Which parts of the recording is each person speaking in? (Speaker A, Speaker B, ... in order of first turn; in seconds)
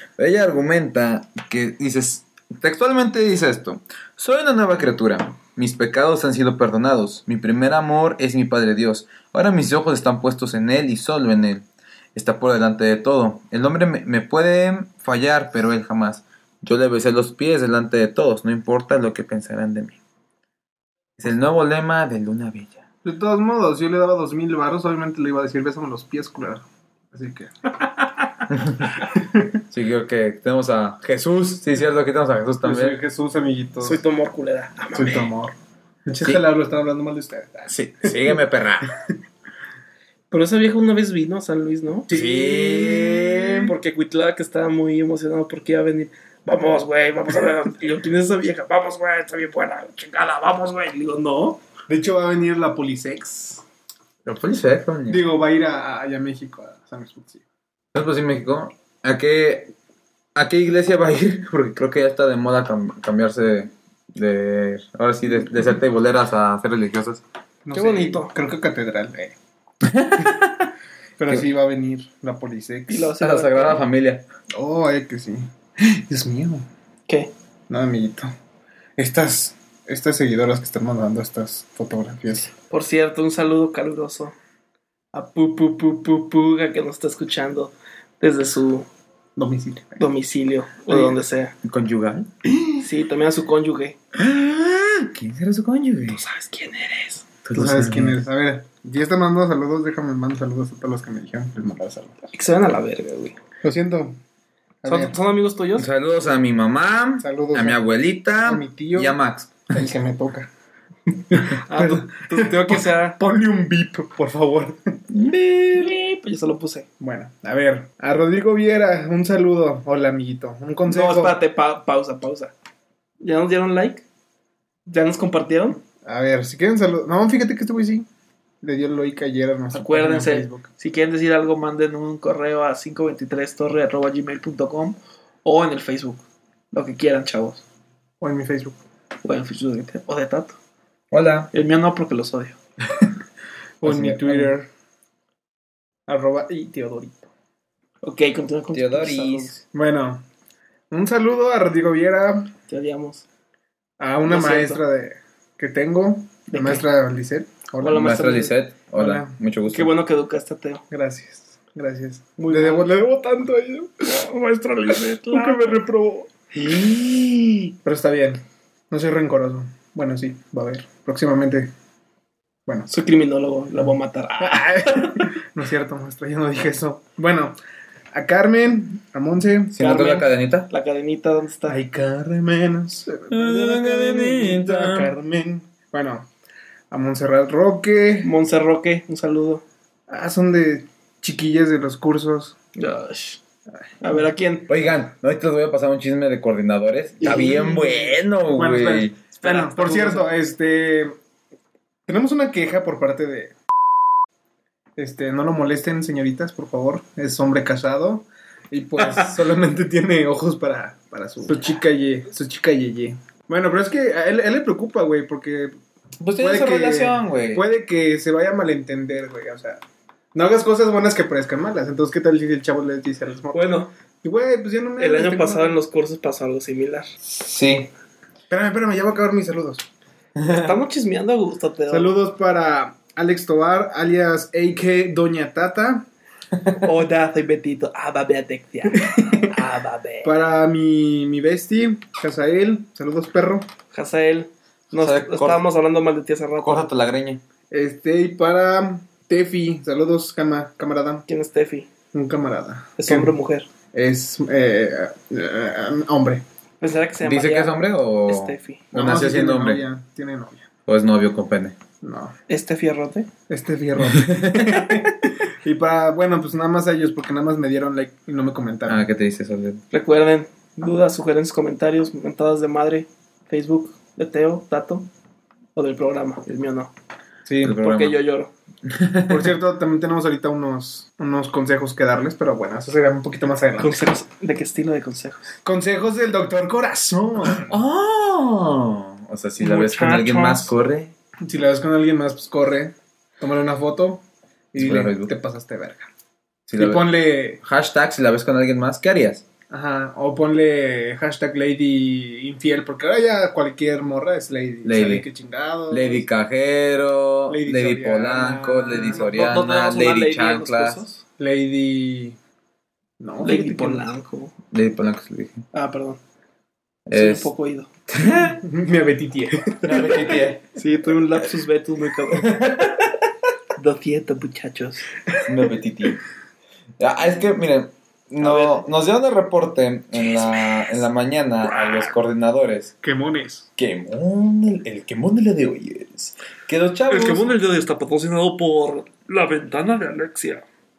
Speaker A: 0.2-20.0, 21.2-22.8, 28.5-28.9, 29.7-33.0, 37.7-38.9, 42.1-43.7, 54.2-55.2, 57.9-59.7, 60.3-67.2, 69.8-70.7, 73.2-74.2, 91.6-92.3, 94.1-96.2, 97.4-98.2, 105.8-109.7, 115.1-116.0, 141.1-141.5, 143.8-144.5, 148.7-149.6, 157.8-159.9, 166.5-167.7, 179.7-180.7, 183.3-185.1, 194.7-199.1, 216.2-217.6, 227.2-227.9, 230.4-230.7, 244.9-245.6, 246.6-247.4, 257.2-259.8, 260.9-261.8, 264.1-265.0, 268.9-269.8, 277.6-278.2, 278.9-279.5, 287.5-291.1, 294.8-295.3, 296.7-297.1, 297.6-299.4, 304.8-305.2, 305.9-311.0, 314.7-315.6, 317.1-317.5, 318.1-318.6, 319.8-320.6, 322.3-323.2, 325.4-326.2, 327.0-332.9, 333.8-337.4
Speaker B: 23.0-27.7, 29.1-29.5, 32.6-34.0, 34.9-35.5, 36.0-38.4, 42.1-43.7, 51.9-53.6, 55.1-57.4, 67.6-69.3, 71.2-73.1, 74.5-76.7, 77.7-78.3, 79.0-82.5, 89.3-90.0, 97.5-102.3, 103.6-104.2, 104.8-105.2, 107.2-107.8, 108.4-109.2, 109.7-110.5, 111.3-115.0, 117.0-121.3, 126.0-128.1, 128.6-130.7, 138.2-138.8, 143.8-144.7, 146.1-147.3, 149.7-150.2, 150.9-152.5, 154.0-158.2, 158.9-159.3, 160.9-164.1, 165.3-166.4, 167.8-171.7, 174.4-177.6, 178.1-180.0, 181.7-186.3, 186.9-188.3, 190.1-192.6, 197.2-201.2, 202.1-203.5, 205.0-215.7, 216.4-219.8, 220.3-225.8, 228.5-229.8, 231.9-236.1, 238.9-239.5, 240.2-243.7, 247.7-251.2, 252.1-253.3, 253.9-256.4, 258.9-260.7, 262.0-262.3, 263.5-269.1, 277.4-277.8, 279.2-284.0, 285.6-287.7, 291.4-296.1, 296.8-297.6, 299.7-306.2, 307.5-309.3, 311.4-312.4, 313.2-314.1, 318.6-320.4, 333.0-333.7
Speaker C: 33.8-35.3, 40.3-42.1, 43.6-51.6, 67.7-68.3, 72.9-73.8, 82.7-84.3, 85.1-88.9, 90.0-91.5, 92.8-94.0, 96.1-97.2, 102.3-103.3, 104.8-105.9, 111.5-113.2, 115.7-116.9, 120.8-122.5, 123.2-124.0, 124.9-125.8, 129.7-137.6, 139.2-140.6, 141.5-142.6, 148.0-149.5, 152.7-153.2, 154.3-154.8, 156.5-156.8, 157.8-158.5, 159.7-160.8, 162.4-162.9, 164.0-165.8, 172.9-175.3, 179.8-181.8, 188.2-189.6, 192.8-193.4, 194.0-194.7, 197.2-197.7, 199.4-200.3, 223.5-223.9, 225.0-227.1, 230.5-232.2, 236.8-240.3, 243.9-246.8, 251.3-251.9, 253.0-253.7, 256.8-258.8, 262.5-263.3, 269.9-275.1, 275.7-276.9, 277.8-278.5, 283.8-285.5, 289.6-290.7, 309.0-311.2, 313.4-314.5, 315.7-316.2, 317.1-317.9, 320.8-322.7, 323.8-325.1, 328.4-328.8, 337.1-340.6